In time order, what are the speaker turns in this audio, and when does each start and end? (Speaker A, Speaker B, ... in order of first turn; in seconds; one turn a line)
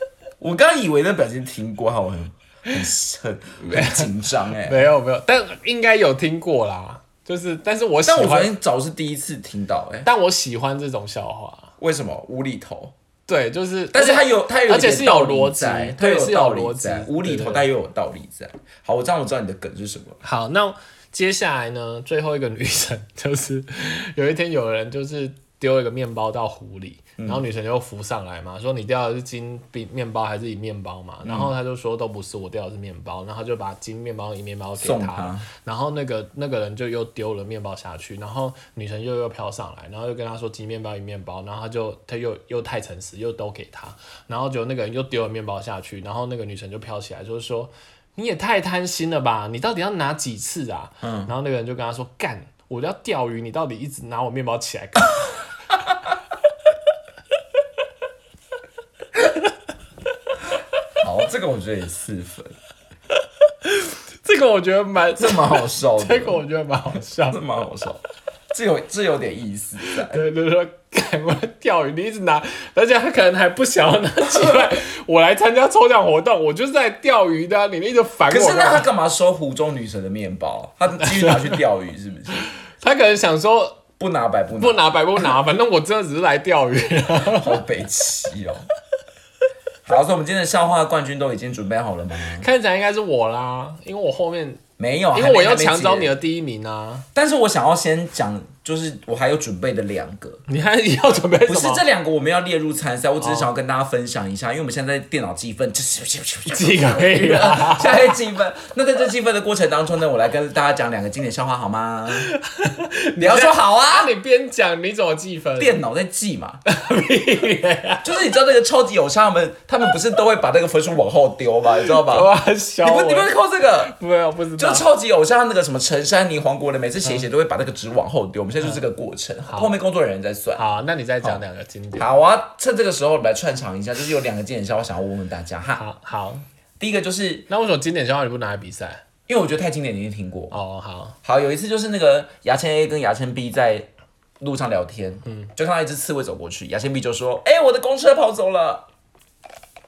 Speaker A: 0.4-4.9
Speaker B: 3.7-4.1
Speaker B: 4.6-8.5
Speaker A: 8.0-10.1
Speaker B: 10.0-11.7
Speaker A: 11.8-12.9
Speaker B: 13.3-17.7
Speaker A: 13.9-20.2
Speaker B: 20.2-55.4
Speaker A: 27.2-27.4
Speaker A: 31.2-31.5
Speaker A: 34.8-35.5
Speaker A: 51.0-51.3
Speaker A: 61.0-62.5
Speaker B: 63.6-67.4
Speaker A: 65.2-66.4
Speaker A: 67.3-70.2
Speaker B: 69.8-78.9
Speaker A: 74.2-74.8
Speaker A: 78.3-82.5
Speaker B: 81.0-81.5
Speaker B: 82.8-83.8
Speaker A: 84.0-84.8
Speaker B: 84.5-87.5
Speaker A: 87.2-88.7
Speaker A: 89.8-92.5
Speaker B: 92.4-94.6
Speaker A: 94.8-96.1
Speaker B: 95.1-97.0
Speaker A: 97.1-100.4
Speaker B: 100.5-101.8
Speaker A: 101.5-112.3
Speaker B: 103.2-103.5
Speaker B: 106.5-108.1
Speaker B: 112.1-115.8
Speaker A: 113.2-114.1
Speaker A: 115.6-116.6
Speaker B: 116.7-118.0
Speaker A: 118.0-123.9
Speaker B: 121.8-123.3
Speaker B: 123.8-124.8
Speaker A: 124.6-131.4
Speaker B: 130.6-132.1
Speaker A: 131.9-135.8
Speaker B: 135.8-136.4
Speaker A: 136.8-137.5
Speaker B: 137.5-139.0
Speaker A: 139.3-140.6
Speaker B: 140.5-141.2
Speaker A: 141.2-143.9
Speaker A: 144.4-148.9
Speaker B: 145.2-145.5